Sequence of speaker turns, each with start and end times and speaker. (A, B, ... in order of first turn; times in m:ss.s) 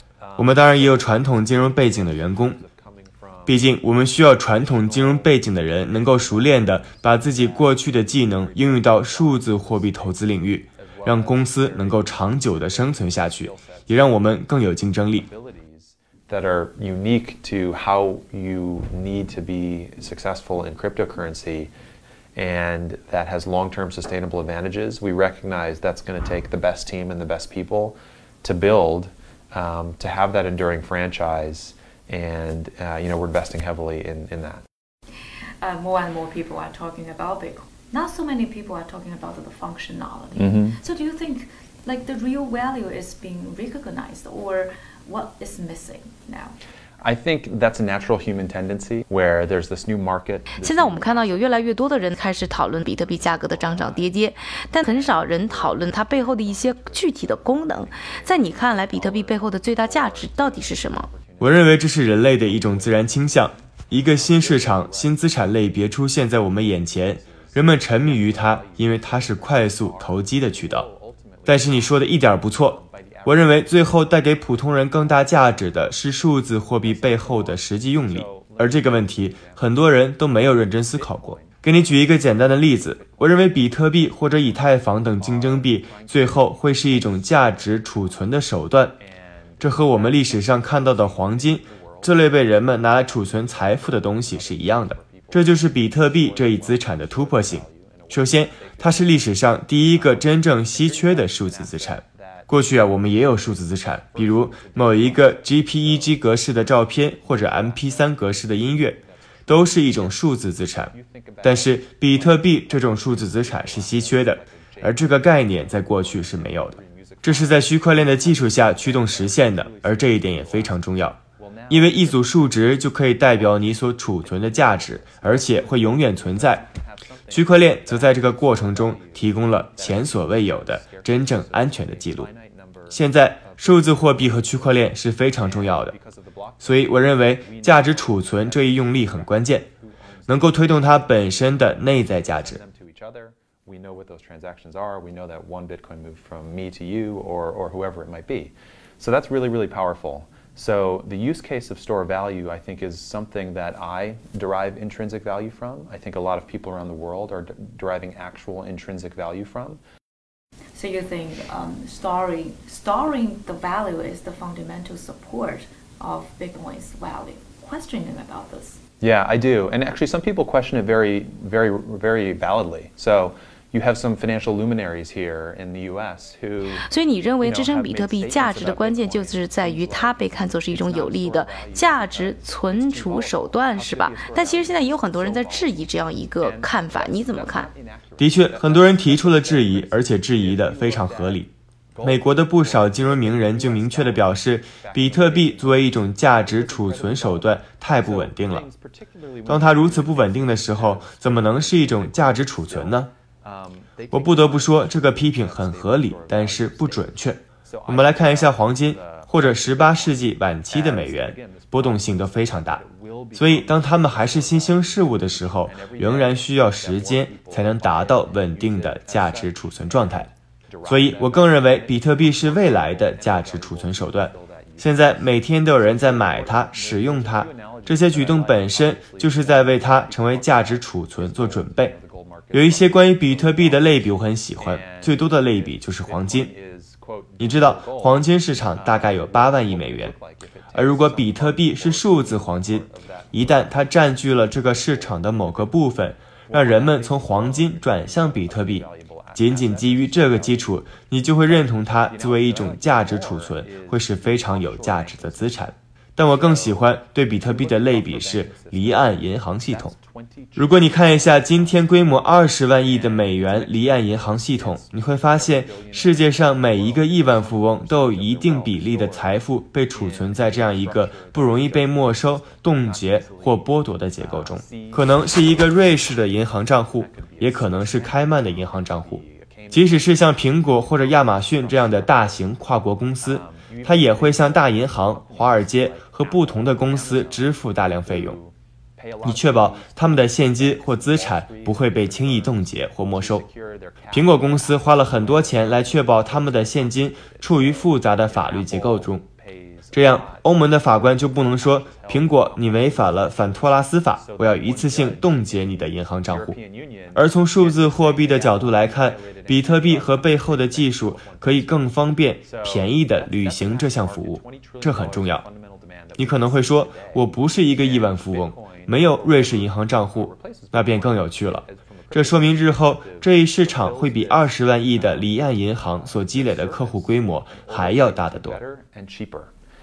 0:00.2-0:03.7 A
0:00.4-0:02.6 B
0:03.5-0:15.3 B
0:04.5-0:14.2 A
0:15.1-0:21.7 A
0:22.4-0:34.6 A
0:35.6-0:46.6 C
0:40.4-0:40.8 A
0:47.0-0:51.4 A
0:50.6-1:01.1 D
0:53.0-1:05.7 A
1:01.4-1:10.9 B
1:06.8-1:16.0 A
1:11.5-1:29.0 B
1:16.7-1:19.9 A
1:20.7-1:28.3 A
1:29.1-1:39.4 A
1:29.6-1:50.9 B
1:39.9-1:43.3 A
1:44.1-1:50.2 A
1:50.8-2:00.9 A
1:51.4-2:01.2 B
2:01.4-2:02.4 A
2:01.7-2:06.6 B
2:03.4-2:03.7 A
2:04.2-2:14.7 A
2:07.3-2:12.3 B
2:12.9-2:15.9 B
2:15.4-2:39.8 A
2:16.6-2:19.7 B
2:20.3-2:22.6 B
2:40.7-2:48.8 C
2:49.0-2:56.8 A
2:56.7-3:07.7 D
2:57.4-3:11.4 A
3:08.2-3:11.5 B
3:12.0-3:27.1 A
3:12.0-3:18.6 B
3:19.5-3:23.1 B
3:24.1-3:32.8 B
3:27.7-4:03.9 A
3:33.4-3:40.3 B
3:40.8-3:51.9 B
3:52.5-3:56.5 B
3:57.4-4:00.2 B
4:00.7-4:19.9 B
4:04.5-4:05.7 A
4:06.4-4:10.7 A
4:11.5-4:15.6 A
4:16.3-4:16.9 A
4:17.4-4:36.2 A
4:20.6-4:48.4 B
4:36.9-4:42.6 A
4:43.2-5:29.5 A
4:49.2-4:53.4 B
4:54.1-4:59.2 B
4:59.9-5:06.6 B
5:07.1-5:15.4 B
5:16.2-5:28.6 B